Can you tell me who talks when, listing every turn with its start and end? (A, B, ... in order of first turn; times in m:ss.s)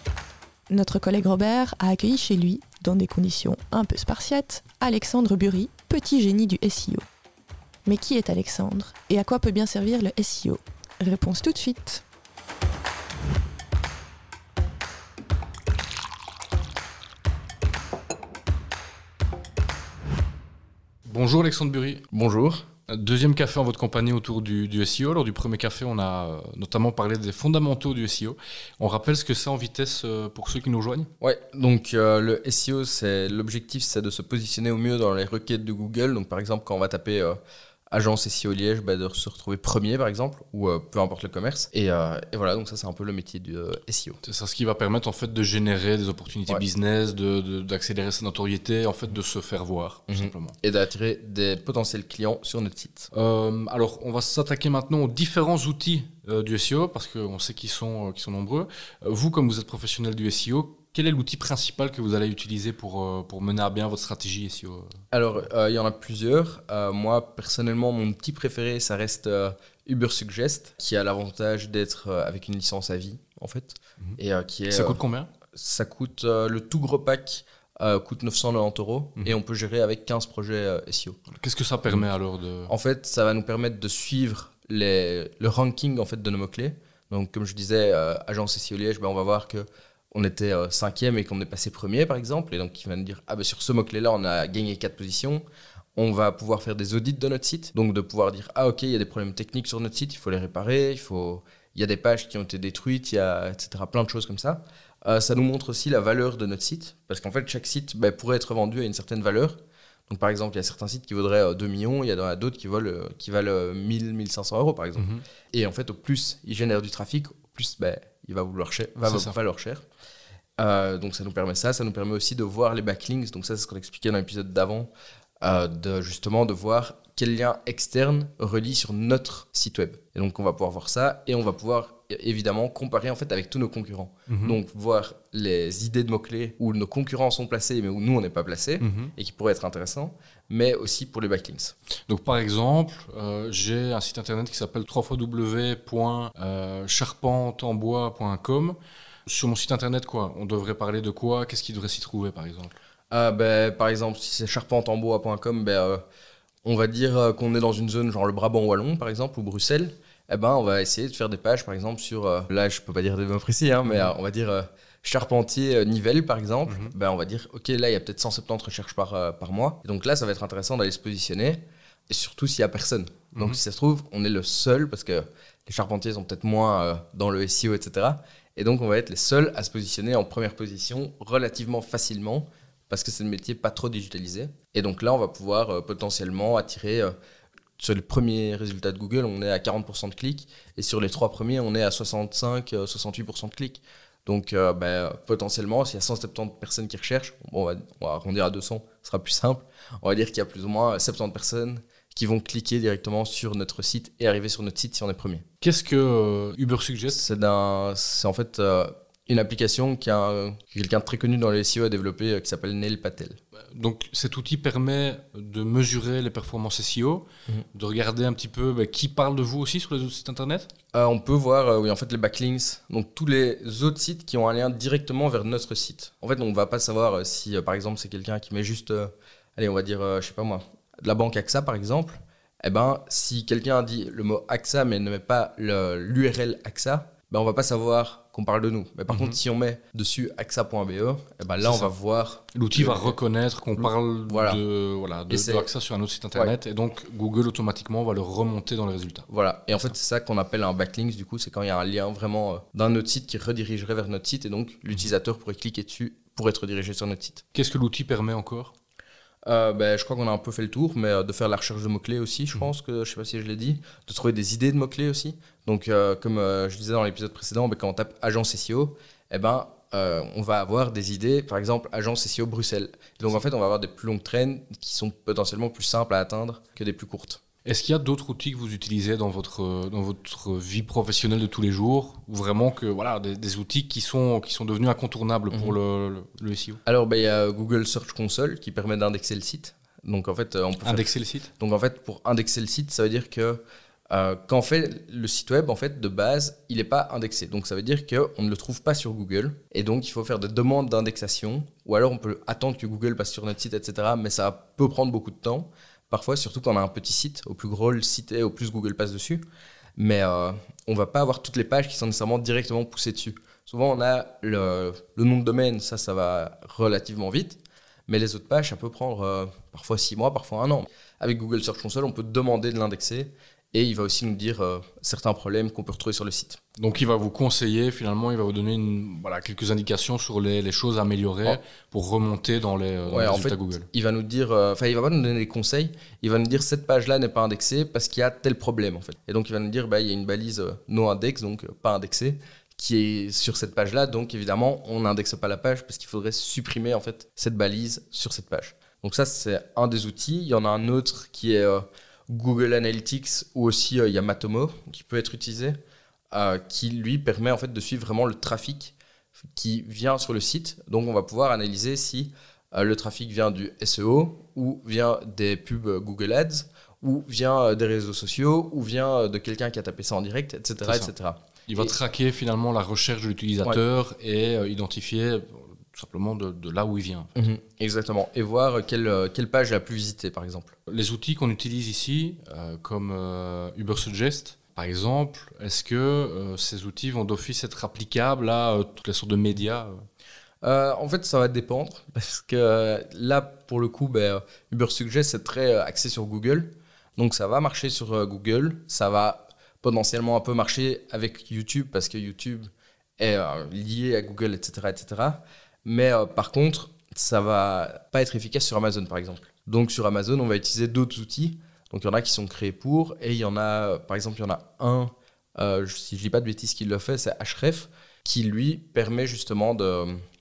0:00.7-0:07.0 A
0:07.8-0:12.0 A
0:21.0-0:22.0 B
0:22.1-0:22.7 C
0:22.9-0:31.1 B
0:31.2-0:37.4 C
0:37.9-0:44.2 C
0:44.2-0:50.5 B
0:50.1-0:53.1 C
0:53.1-1:04.9 B
1:05.1-1:15.0 C
1:14.7-1:15.3 B
1:15.5-1:21.2 C
1:21.3-1:22.7 B
1:22.7-1:35.4 C
1:36.0-1:59.8 C
1:55.0-1:55.2 B
1:59.0-1:59.3 B
2:00.6-2:04.9 C
2:05.4-2:21.8 C
2:14.3-2:14.6 B
2:18.8-2:19.1 B
2:22.1-2:32.7 B
2:33.1-2:36.0 C
2:36.6-3:07.1 C
2:43.8-2:44.1 B
2:46.7-2:46.9 B
3:07.8-3:25.4 C
3:25.6-3:27.2 B
3:27.1-3:33.4 C
3:33.7-3:40.7 B
3:40.9-4:03.2 C
3:59.1-3:59.4 B
4:01.6-4:01.9 B
4:02.5-4:09.2 B
4:03.8-4:04.6 C
4:05.3-4:05.7 C
4:09.3-4:17.4 C
4:17.5-4:18.7 B
4:19.4-4:37.4 C
4:37.6-4:46.8 B
4:45.5-4:45.8 C
4:46.8-4:51.1 C
4:50.8-4:51.5 B
4:51.6-5:09.4 C
5:10.0-5:26.6 C
5:26.8-5:33.9 B
5:33.1-5:55.8 C
5:56.3-5:58.9 C
5:59.5-6:12.0 C
6:10.8-6:11.1 B
6:11.7-6:17.3 B
6:17.3-6:20.7 C
6:20.9-6:30.0 B
6:30.6-7:00.2 C